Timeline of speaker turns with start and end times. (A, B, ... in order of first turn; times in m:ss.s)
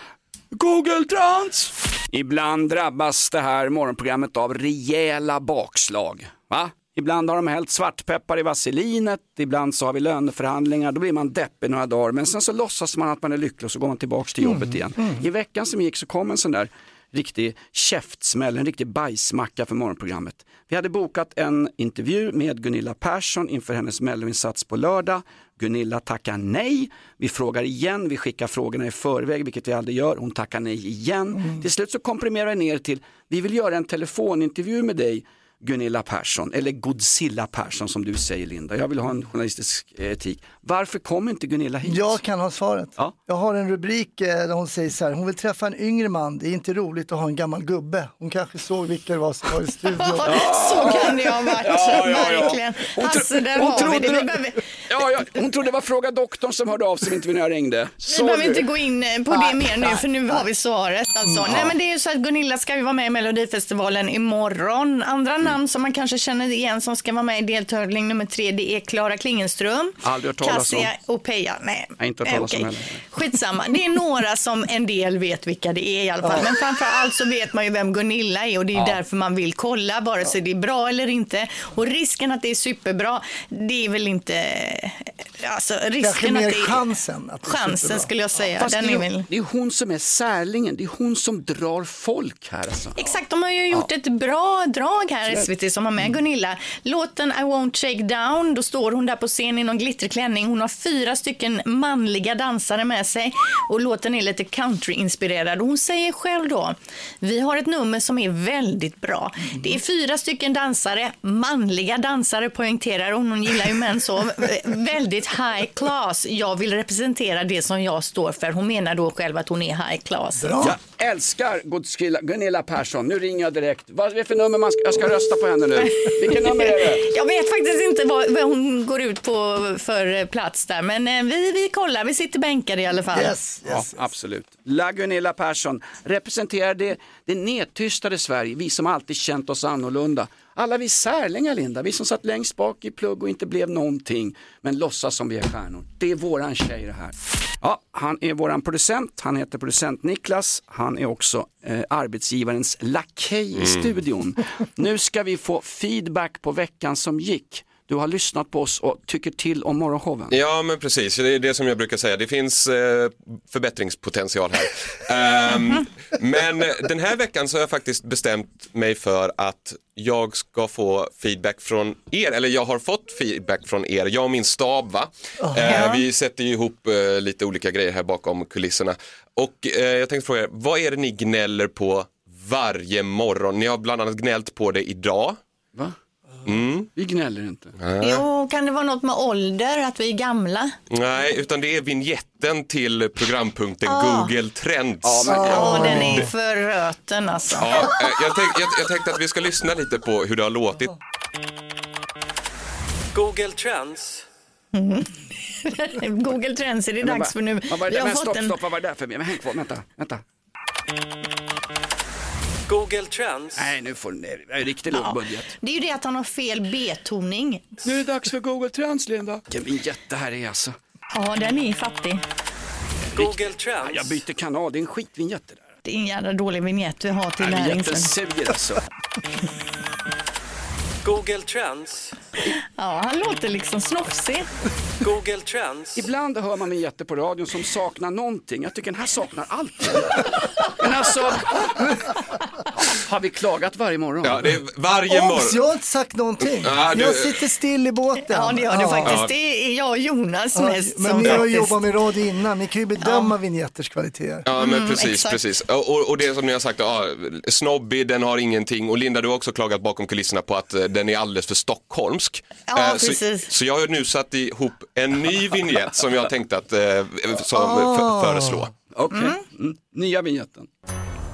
0:00.5-0:42.2 A
0:14.4-0:15.2 B
0:41.8-0:51.1 B
0:50.0-0:54.6 C
0:50.2-0:54.3 A
0:54.9-0:58.7 A
0:58.1-1:26.8 C
1:10.0-1:10.9 A
1:12.0-1:13.0 A
1:26.0-1:28.1 B
1:27.4-1:29.3 C
1:28.6-1:33.0 A
1:33.0-2:00.6 C
2:00.4-2:00.8 B
2:00.6-2:07.1 A
2:06.0-2:13.4 C
2:13.1-2:14.0 B
2:13.7-2:40.4 A
2:33.6-2:33.9 D
2:40.3-3:05.4 D
2:55.4-2:55.9 B
2:55.7-2:56.0 C
3:06.5-3:06.9 D
3:07.0-3:07.8 A
3:07.8-3:08.3 D
3:08.0-3:10.8 C
3:10.9-3:16.2 D
3:13.9-3:14.3 C
3:15.0-3:16.1 A
3:15.3-3:16.3 B
3:15.5-3:17.9 C
3:17.6-3:21.0 D
3:23.1-3:24.2 E
3:24.7-3:28.6 C
3:27.0-3:30.2 A
3:32.7-3:33.7 E
3:33.6-3:35.5 A
3:34.9-3:37.7 C
3:37.8-3:40.8 A
3:41.1-3:42.2 C
3:43.1-3:45.7 A
3:43.2-3:44.2 E
3:45.8-3:48.1 C
3:47.4-3:48.8 A
3:51.0-3:52.2 E
3:52.8-3:54.5 C
3:55.0-3:56.1 E
3:56.0-4:01.9 A
4:02.8-4:04.6 A
4:04.2-4:05.6 D
4:05.1-4:09.2 B
4:06.5-4:07.4 D
4:08.3-4:11.8 C
4:09.1-4:09.3 D
4:10.6-4:14.5 B
4:13.0-4:13.3 C
4:14.5-4:28.7 D
4:14.6-4:15.4 C
4:22.7-4:23.5 C
4:27.5-4:28.7 B
4:28.9-4:30.7 A
4:29.1-4:29.4 C